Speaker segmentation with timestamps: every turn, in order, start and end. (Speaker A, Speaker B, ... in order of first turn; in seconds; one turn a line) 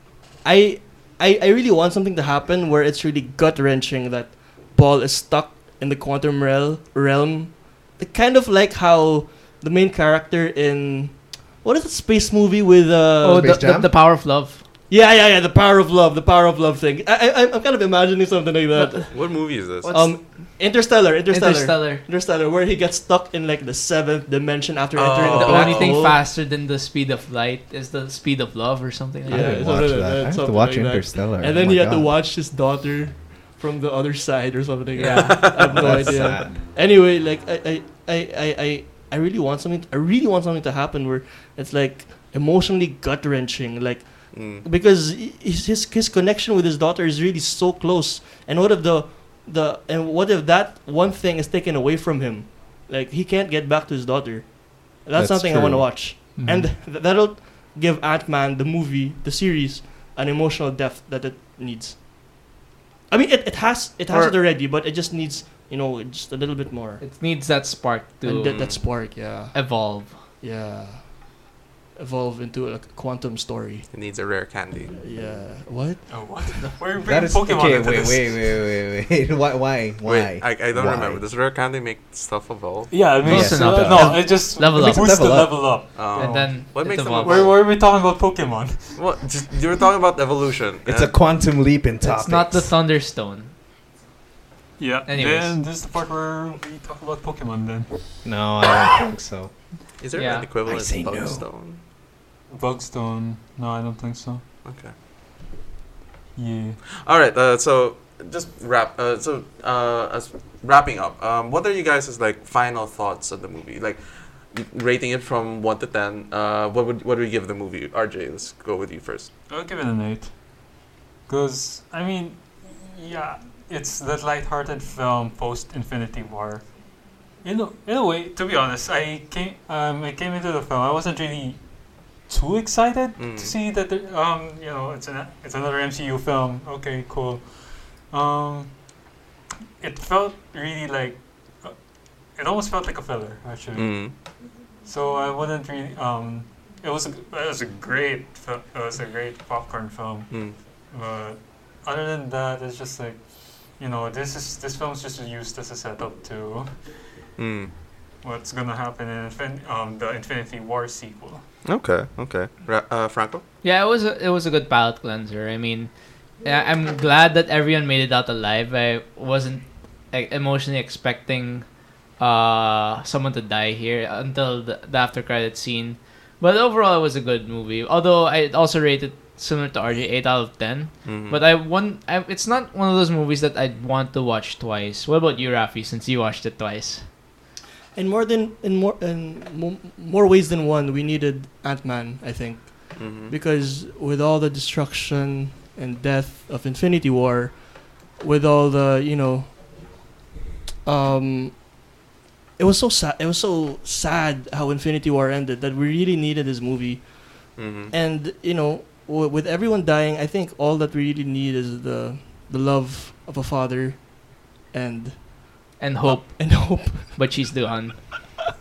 Speaker A: 0.4-13.5
Speaker B: 13.2-14.6
Speaker C: 13.3-13.9
Speaker A: 14.9-26.2
Speaker B: 18.7-20.2
Speaker D: 19.1-19.9
Speaker B: 21.3-22.0
Speaker D: 24.9-26.2
Speaker B: 25.3-29.6
Speaker A: 29.3-62.5
Speaker C: 29.3-32.1
Speaker B: 35.0-35.8
Speaker D: 35.0-36.3
Speaker C: 35.6-36.6
Speaker D: 44.3-44.6
Speaker C: 55.2-56.4
Speaker E: 56.4-56.7
Speaker A: 63.1-67.0
Speaker D: 64.1-64.4
Speaker B: 67.0-70.2
Speaker A: 68.2-71.5
Speaker D: 68.5-68.9
Speaker A: 72.0-73.9
Speaker D: 73.9-74.9
Speaker A: 75.0-76.8
Speaker E: 76.1-78.6
Speaker C: 77.0-81.2
Speaker D: 80.0-83.1
Speaker E: 82.9-89.1
Speaker C: 83.1-86.0
Speaker B: 83.2-87.5
Speaker D: 85.9-87.7
Speaker D: 89.0-91.2
Speaker C: 90.8-92.7
Speaker B: 92.0-93.5
Speaker E: 94.8-98.2
Speaker B: 95.1-95.6
Speaker C: 98.2-101.5
Speaker D: 100.0-101.8
Speaker B: 100.1-100.5
Speaker E: 102.5-104.4
Speaker D: 104.7-104.9
Speaker E: 106.4-106.8
Speaker D: 107.0-119.3
Speaker E: 119.5-120.3
Speaker E: 121.3-126.7
Speaker E: 127.4-131.6
Speaker E: 132.2-138.8
Speaker D: 133.2-133.5
Speaker E: 139.8-141.8
Speaker E: 142.3-157.0
Speaker D: 143.8-144.2
Speaker D: 150.3-150.6
Speaker D: 157.4-157.7
Speaker E: 158.2-161.4
Speaker D: 161.6-163.4
Speaker B: 163.6-187.1
Speaker D: 181.0-181.5
Speaker A: 187.9-199.9
Speaker D: 192.9-193.4
Speaker A: 200.8-201.9
Speaker A: 202.6-217.3
Speaker D: 207.6-207.9
Speaker B: 215.8-218.4